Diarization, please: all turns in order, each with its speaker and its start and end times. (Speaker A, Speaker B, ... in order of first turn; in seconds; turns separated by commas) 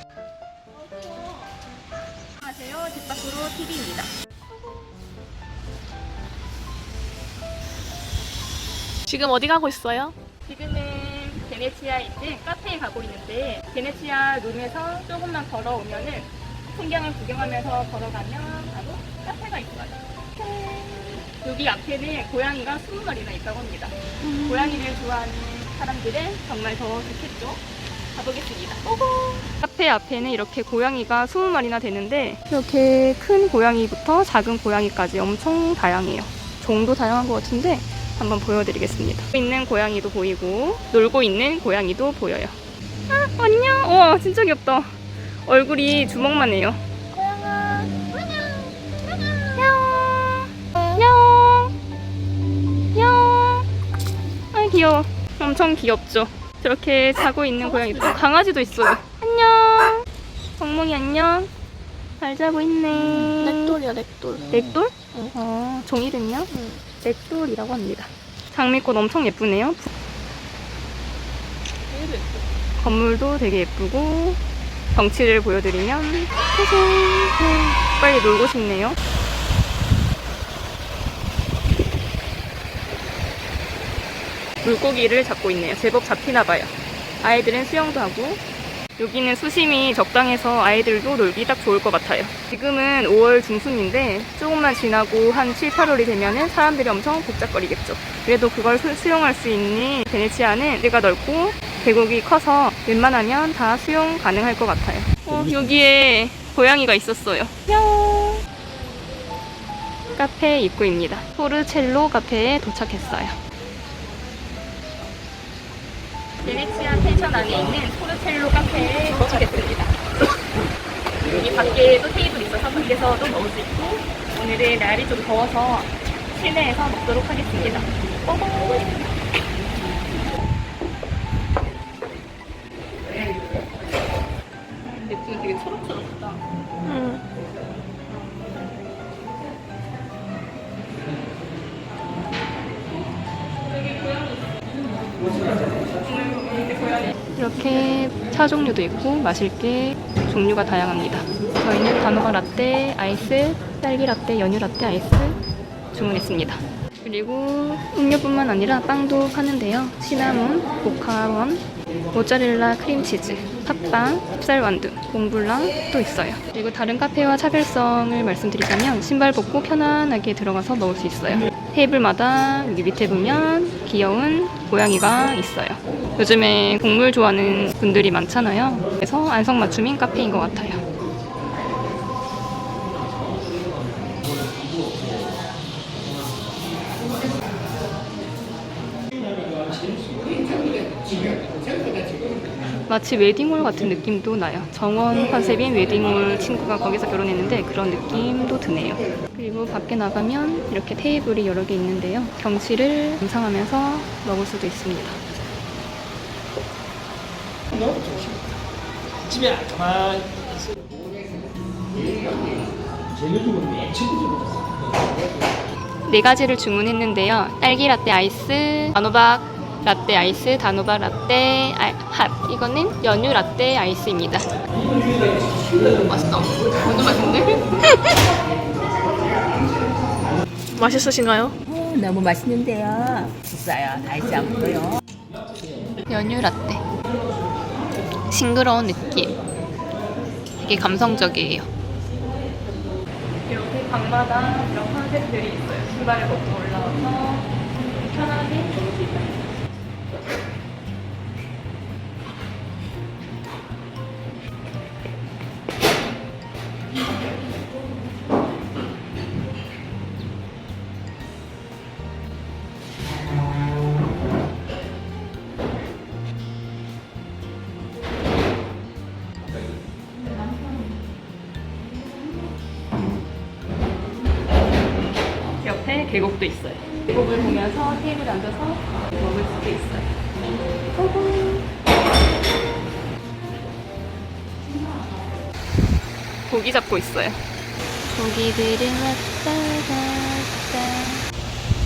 Speaker A: 2.4-4.1, Speaker B: 9.1-10.1, Speaker A: 10.5-27.6, Speaker A: 28.1-42.5, Speaker A: 43.1-44.9, Speaker A: 45.5-46.8, Speaker A: 49.2-51.7, Speaker A: 53.0-53.6, Speaker A: 54.5-60.0, Speaker B: 57.8-58.1, Speaker A: 60.6-61.5, Speaker A: 62.2-63.8, Speaker B: 63.4-64.5, Speaker A: 64.5-66.5, Speaker B: 66.5-66.8, Speaker A: 67.0-69.9, Speaker B: 71.9-72.4, Speaker A: 72.8-74.4, Speaker A: 75.0-79.0, Speaker A: 84.6-88.4, Speaker A: 89.0-108.4, Speaker A: 110.2-113.4, Speaker A: 116.4-120.0, Speaker A: 121.3-128.7, Speaker A: 135.0-136.4, Speaker B: 136.8-137.2, Speaker A: 146.3-146.7, Speaker A: 147.3-155.4, Speaker A: 155.9-180.8, Speaker A: 192.9-205.2, Speaker C: 208.1-208.4, Speaker C: 209.3-210.3, Speaker C: 213.2-214.5, Speaker A: 216.1-224.5, Speaker A: 226.1-227.6, Speaker B: 230.7-231.6, Speaker D: 231.7-235.0, Speaker A: 236.1-236.8, Speaker A: 238.3-239.3, Speaker A: 240.6-241.7, Speaker A: 243.5-249.5, Speaker A: 275.6-280.1, Speaker A: 280.9-281.7, Speaker A: 286.5-287.4, Speaker A: 288.1-291.2